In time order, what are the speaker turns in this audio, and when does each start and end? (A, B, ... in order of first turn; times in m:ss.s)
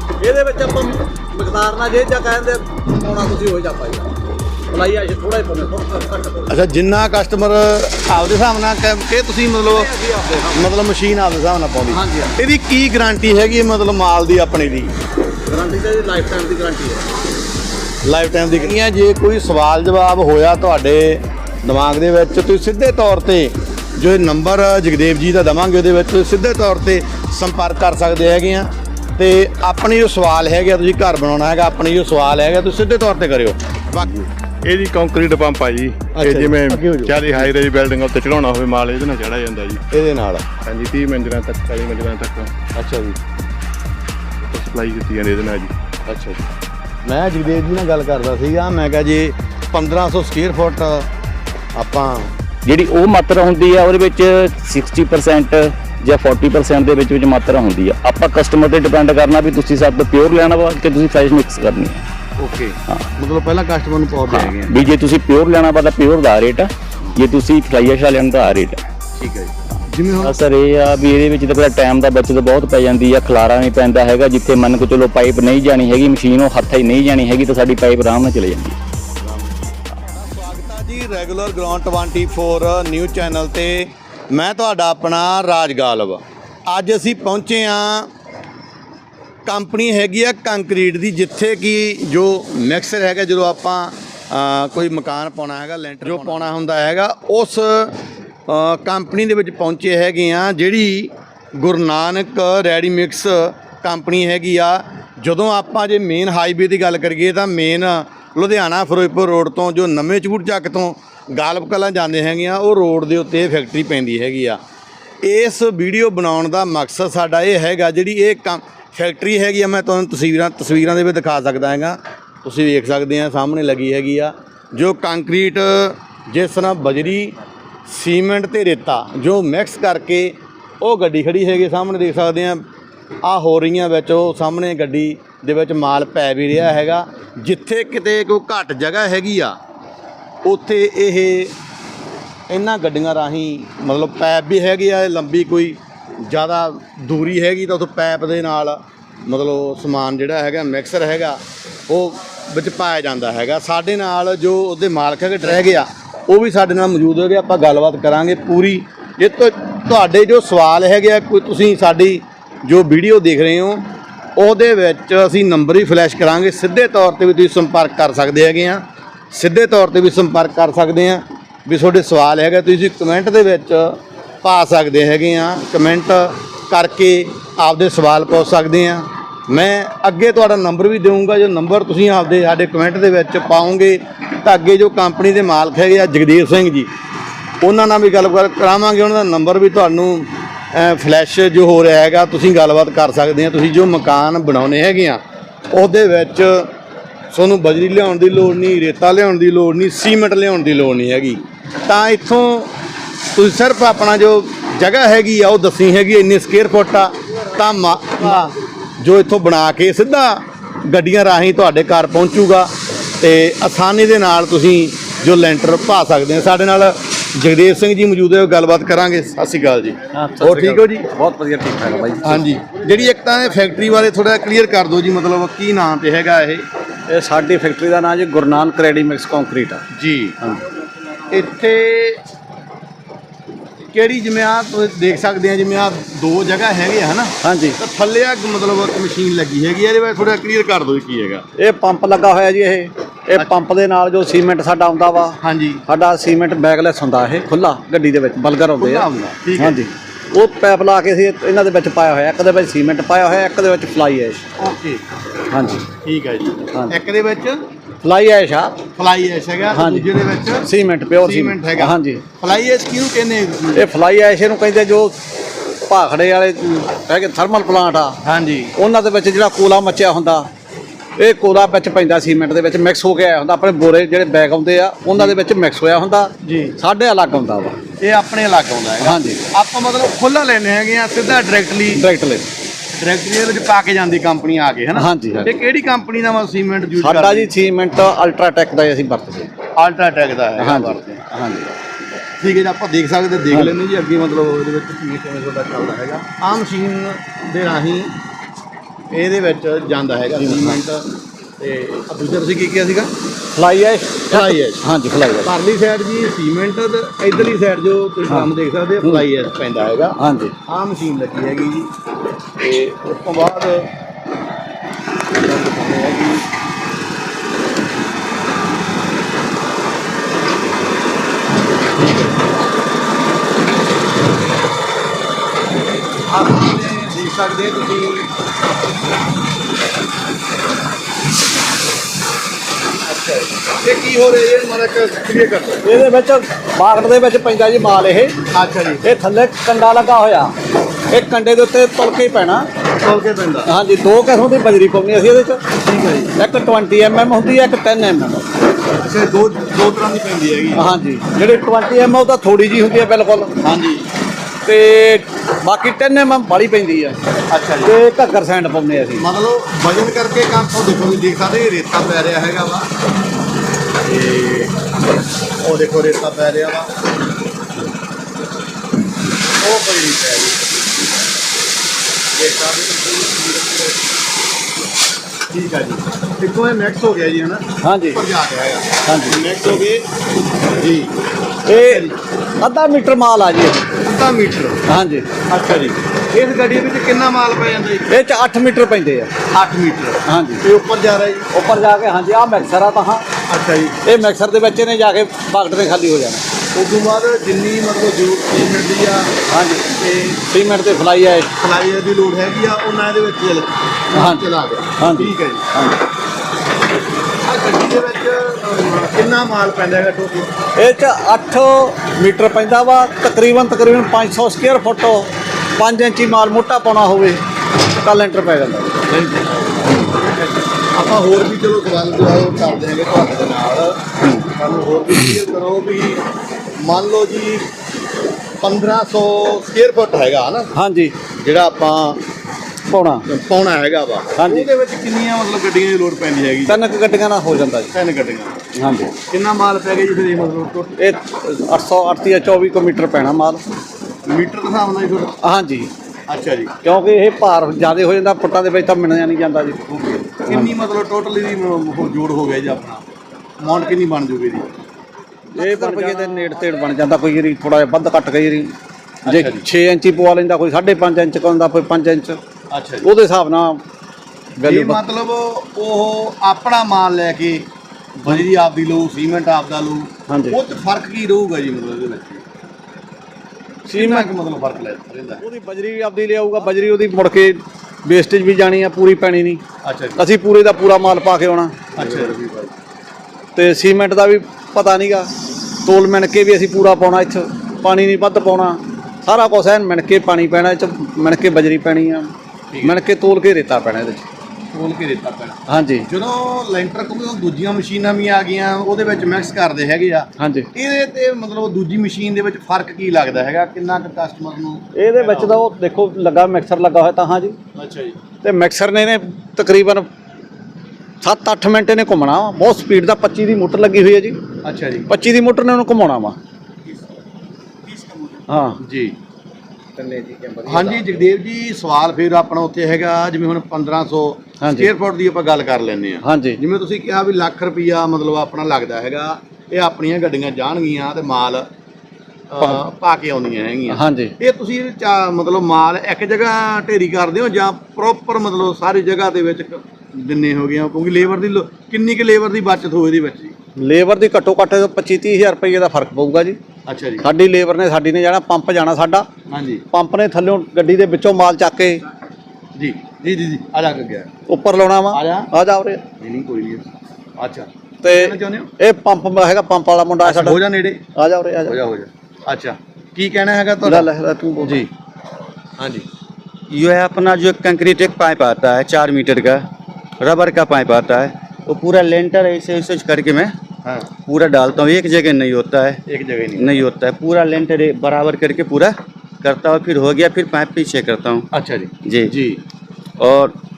0:00.2-0:04.2 A
0:04.7-0:06.6 A
0:06.5-0:09.9 B
0:09.7-0:10.7 A
0:10.5-0:14.9 B
0:11.9-0:12.4 A
0:15.5-0:17.1 A
0:18.0-0:34.3 B
0:34.6-0:39.8 C
0:36.1-0:37.5 B
0:39.9-0:40.5 B
0:40.6-0:42.5 C
0:42.8-0:43.2 B
0:44.5-0:45.7 C
0:46.1-0:46.5 B
0:47.0-0:51.1 B
0:51.7-0:52.3 B
0:52.6-1:02.0 D
1:02.4-1:04.8 B
1:04.3-1:08.8 D
1:09.2-1:10.4 B
1:10.2-1:18.8 D
1:19.2-1:28.1 B
1:29.5-1:54.6 B
1:55.2-2:12.7 B
2:13.2-2:19.6 B
2:20.4-2:21.6 B
2:22.5-3:06.9 B
3:07.6-3:16.7 B
3:17.3-3:22.8 B
3:23.3-3:41.1 B
3:40.1-3:42.5 A
3:42.2-3:46.7 B
3:47.1-3:49.8 A
3:49.9-3:50.4 B
3:51.3-3:52.2 B
3:53.9-4:01.5 B
3:57.4-3:57.8 A
4:01.6-4:14.4 A
4:05.4-4:05.8 B
4:08.8-4:09.8 B
4:14.6-4:15.0 B
4:15.5-4:15.9 A
4:16.0-4:17.6 B
4:16.7-4:17.0 A
4:18.0-4:18.9 A
4:18.9-4:23.9 B
4:19.7-4:20.1 A
4:20.6-4:22.2 A
4:23.7-4:25.2 A
4:25.9-4:28.2 A
4:28.2-4:28.7 B
4:28.8-4:30.5 A
4:31.2-4:37.8 A
4:36.4-4:36.8 B
4:38.0-4:42.1 B
4:39.0-4:39.4 A
4:41.9-4:42.5 A
4:42.9-4:47.5 B
4:45.0-4:45.5 A
4:47.0-4:49.5 A
4:49.8-4:51.3 B
4:50.6-4:51.7 A
4:52.4-4:58.2 B
4:59.1-5:03.1 B
5:00.4-5:00.8 A
5:03.6-5:05.5 A
5:04.3-5:04.8 B
5:05.4-5:11.9 B
5:10.2-5:10.6 A
5:12.6-5:13.9 B
5:15.4-5:16.5 B
5:21.9-5:22.5 B
5:26.3-5:28.3 B
5:33.0-5:35.9 B
5:35.8-5:38.5 A
5:38.5-5:39.0 B
5:39.0-5:40.6 A
5:41.1-5:42.7 A
5:43.0-5:43.7 B
5:43.7-5:45.8 A
5:45.8-5:46.4 B
5:46.4-5:48.5 A
5:48.9-5:50.9 B
5:50.7-5:53.6 A
5:53.6-5:54.1 B
5:54.6-5:57.2 A
5:57.5-5:58.0 B
5:57.8-5:59.3 A
5:59.2-6:02.9 B
6:04.0-6:06.9 B
6:09.6-6:10.7 B
6:12.3-6:14.1 B
6:15.5-6:22.2 B
6:17.8-6:18.2 A
6:19.0-6:19.4 A
6:21.7-6:24.0 A
6:24.0-6:24.8 B
6:24.9-6:25.3 A
6:25.5-6:28.2 B
6:28.1-6:29.4 A
6:29.5-6:31.5 B
6:30.3-6:30.6 A
6:31.5-6:33.3 A
6:33.5-6:34.0 B
6:34.0-6:36.4 A
6:36.7-6:40.4 B
6:39.5-6:39.9 A
6:40.5-6:41.5 A
6:41.6-6:45.7 B
6:44.1-6:46.0 A
6:47.4-6:50.6 B
6:50.8-6:59.1 A
6:59.1-7:06.3 B
7:06.8-7:07.7 B
7:08.6-7:10.7 B
7:10.8-7:11.2 A
7:11.3-7:12.2 B
7:12.9-7:13.3 A
7:13.3-7:16.8 B
7:14.4-7:14.7 A
7:16.7-7:17.9 A
7:17.9-7:18.7 B
7:18.7-7:19.1 A
7:19.2-7:21.0 B
7:21.0-7:23.6 A
7:24.2-7:25.4 B
7:25.4-7:25.9 A
7:26.3-7:26.8 B
7:26.8-7:30.7 A
7:30.4-7:33.0 B
7:33.6-7:34.7 B
7:35.5-7:36.6 B
7:35.6-7:38.7 A
7:39.2-7:39.7 B
7:39.2-7:42.4 A
7:42.7-7:43.1 B
7:43.0-7:43.8 A
7:44.6-7:45.0 A
7:44.6-7:52.4 B
7:50.3-7:50.6 A
7:53.9-7:55.4 B
7:53.9-7:54.3 A
7:55.4-7:59.6 A
7:59.8-8:00.2 B
8:00.2-8:02.2 A
8:02.0-8:02.7 B
8:03.6-8:05.3 A
8:05.8-8:14.3 A
8:12.7-8:13.0 B
8:14.7-8:25.6 B
8:15.7-8:16.1 A
8:20.4-8:20.7 A
8:25.0-8:27.6 A
8:27.8-8:28.2 B
8:28.4-8:30.1 A
8:31.2-8:34.4 A
8:34.6-8:35.1 B
8:35.1-8:36.4 A
8:38.5-8:38.8 A
8:38.8-8:39.2 B
8:40.0-8:41.0 A
8:40.7-8:51.7 B
8:44.6-8:44.9 A
8:46.2-8:46.6 A
8:52.5-9:03.6 B
8:53.9-8:54.3 A
9:03.8-9:06.6 A
9:06.9-9:07.3 B
9:07.2-9:09.3 A
9:09.5-9:09.8 B
9:09.9-9:12.0 A
9:12.8-9:14.3 B
9:14.5-9:16.0 A
9:15.1-9:15.5 B
9:16.2-9:18.7 B
9:18.0-9:20.6 A
9:20.2-9:21.0 B
9:21.2-9:21.8 A
9:21.6-9:24.1 B
9:23.8-9:24.9 A
9:24.6-9:24.9 B
9:25.8-9:26.1 B
9:26.7-9:29.7 E
9:30.2-9:33.6 E
9:33.8-9:34.1 B
9:34.3-9:36.0 E
9:36.1-9:36.8 B
9:36.6-9:41.5 E
9:41.5-9:42.6 B
9:42.0-9:42.4 E
9:43.2-9:43.6 E